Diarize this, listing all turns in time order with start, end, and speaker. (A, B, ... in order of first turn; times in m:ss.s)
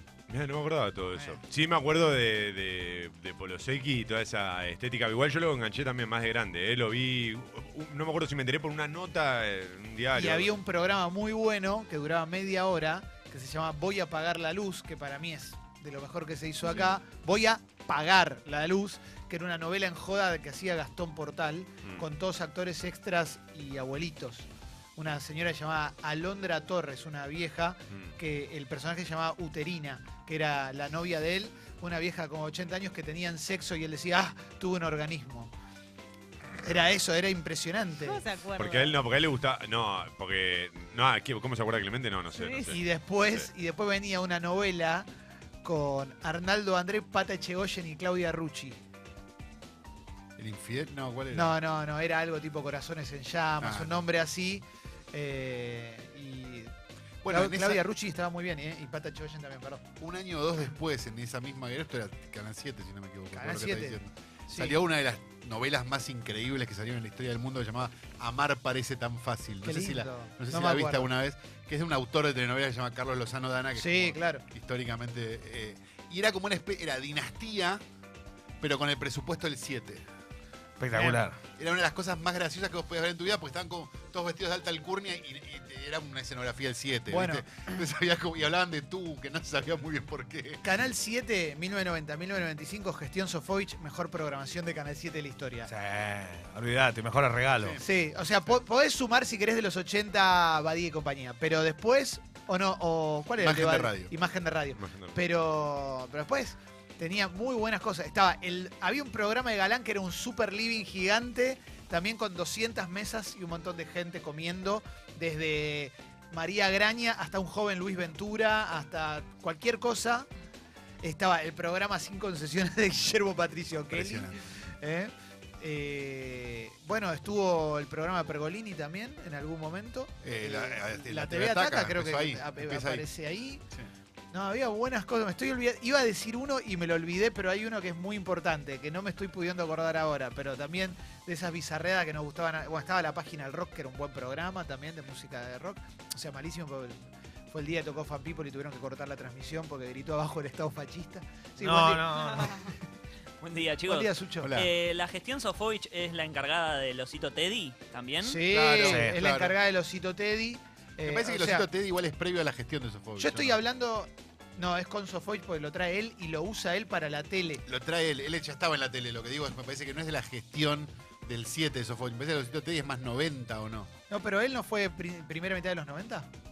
0:00.3-0:10.5 A
0:10.2-0:35.5 B
0:16.6-0:17.0 C
0:27.9-0:28.2 A
0:36.6-0:38.2 B
0:38.0-0:39.0 C
0:38.6-0:43.5 A
0:42.3-0:42.7 C
0:42.7-0:45.1 B
0:45.6-0:48.8 B
0:50.4-0:51.6 D
0:51.3-0:56.7 B
0:53.6-0:54.0 D
0:57.2-0:57.8 D
0:57.3-0:59.8 B
1:00.0-1:17.8 D
1:03.3-1:04.0 B
1:04.5-1:04.8 B
1:09.6-1:11.1 B
1:13.8-1:14.4 B
1:18.6-1:20.0 D
1:20.8-1:21.4 E
1:20.9-1:21.2 B
1:21.6-1:30.6 D
1:27.1-1:27.4 B
1:30.6-1:35.7 B
1:35.7-1:37.8 E
1:37.8-2:00.3 B
1:43.4-1:44.1 D
1:44.8-1:45.2 A
2:01.0-2:13.6 B
2:03.9-2:04.4 D
2:10.2-2:13.1 D
2:14.3-2:32.8 B
2:31.6-2:32.6 E
2:32.3-2:32.6 C
2:33.4-2:38.5 F
2:33.9-2:34.6 B
2:34.4-2:34.7 D
2:38.2-2:41.7 B
2:38.5-2:39.6 D
2:38.9-2:39.2 E
2:41.0-2:43.6 D
2:43.2-2:47.6 B
2:47.7-2:53.9 D
2:54.1-2:56.3 B